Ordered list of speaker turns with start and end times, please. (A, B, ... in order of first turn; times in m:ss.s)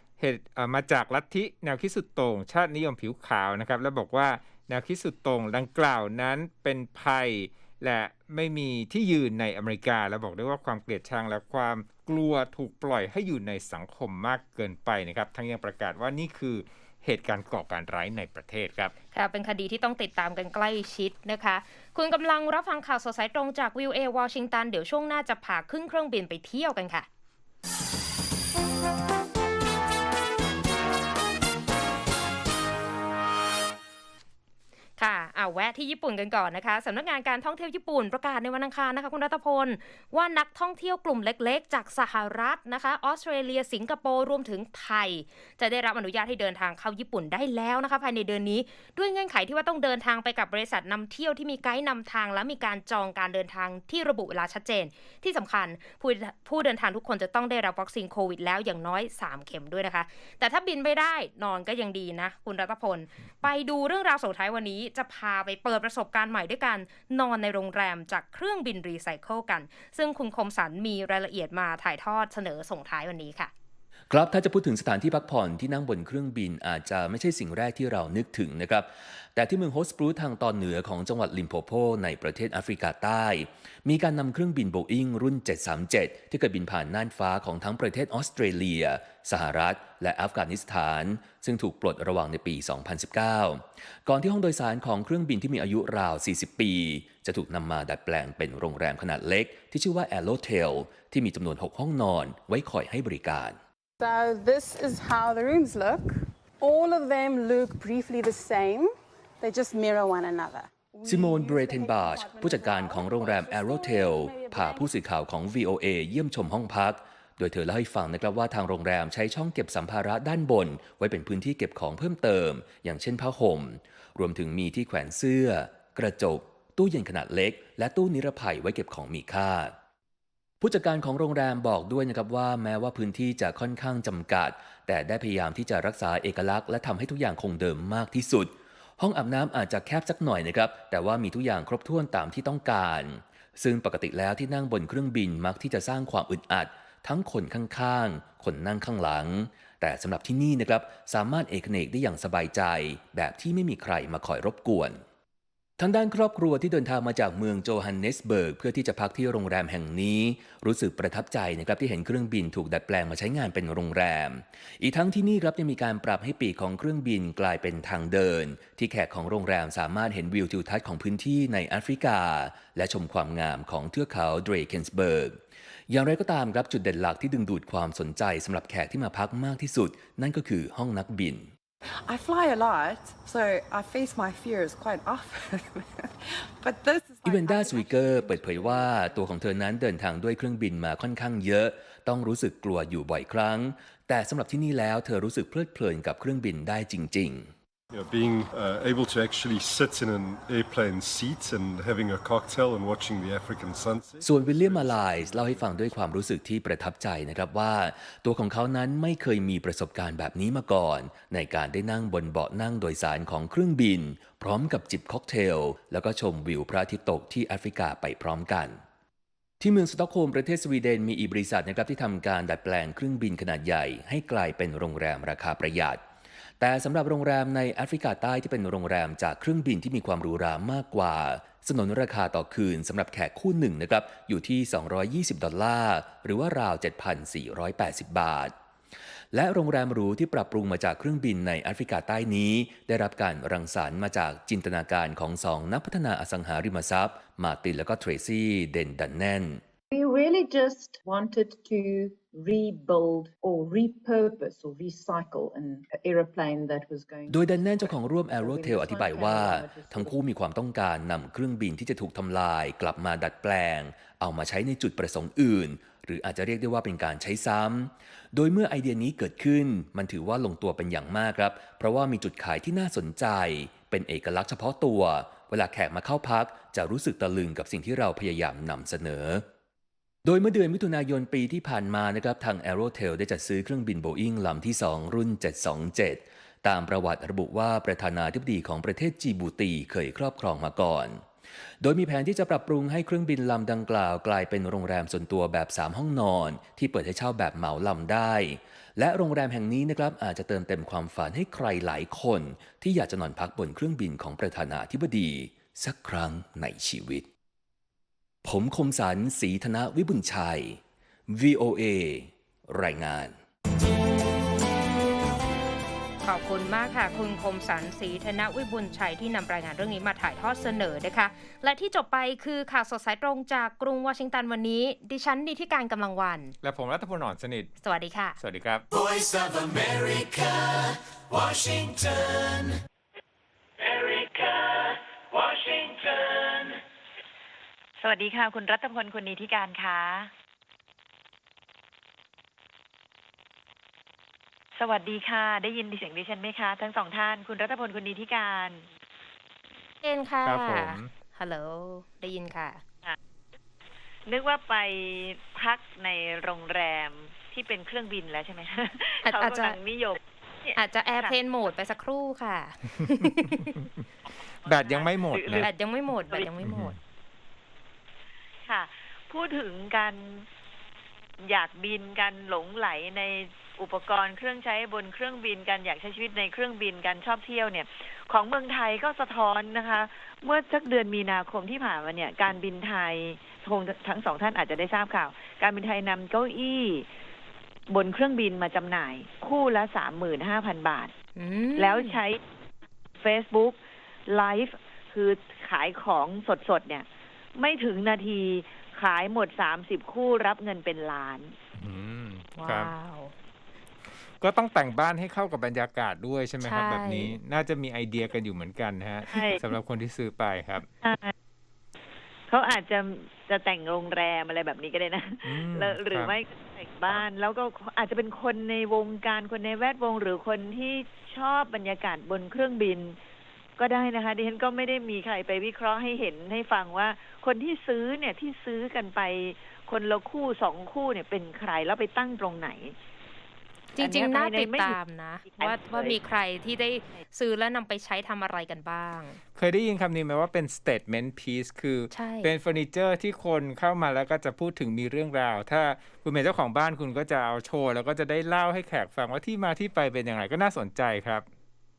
0:00.2-0:18.9 A
0:19.1-0:27.1 B
0:35.0-1:13.5 B
1:14.1-1:43.6 C
1:44.0-1:55.1 D
1:51.0-2:09.7 C
2:10.6-2:35.0 C
2:35.8-3:01.5 C
3:01.8-3:09.6 E
3:07.2-3:17.5 C
3:17.9-3:26.1 F
3:24.2-3:38.8 C
3:39.6-3:46.0 C
3:46.6-3:58.5 C
3:59.3-4:09.6 C
4:09.9-4:20.3 G
4:17.3-4:39.4 C
4:40.2-4:51.2 C
4:51.8-5:07.3 C
5:08.4-5:13.4 C
5:16.2-5:26.6 B
5:26.6-5:27.7 A
5:27.8-5:28.4 B
5:28.4-5:28.8 A
5:28.9-5:32.8 H
5:33.8-5:36.8 H
5:38.0-5:40.3 I
5:44.8-5:48.9 I
5:50.0-5:52.8 B
5:50.4-5:51.1 A
5:54.3-6:01.3 I
5:59.2-5:59.8 B
6:00.8-6:03.7 B
6:04.6-6:05.7 A
6:04.6-6:05.7 I
6:05.5-6:07.0 B
6:06.6-6:07.0 A
6:08.7-6:10.4 I
6:11.5-6:27.1 I
6:27.9-6:31.1 I
6:31.4-6:32.2 B
6:31.8-6:32.4 I
6:33.2-6:41.6 I
6:41.8-6:42.9 A
6:42.6-6:43.3 B
6:44.4-6:50.9 A
6:46.6-6:47.4 B
6:49.3-6:49.6 I
6:51.0-6:51.3 I
6:52.5-7:03.2 I
6:55.4-6:56.4 A
7:03.8-7:13.0 I
7:14.0-7:19.4 B
7:14.0-7:16.2 I
7:19.6-7:31.4 A
7:22.1-7:22.5 B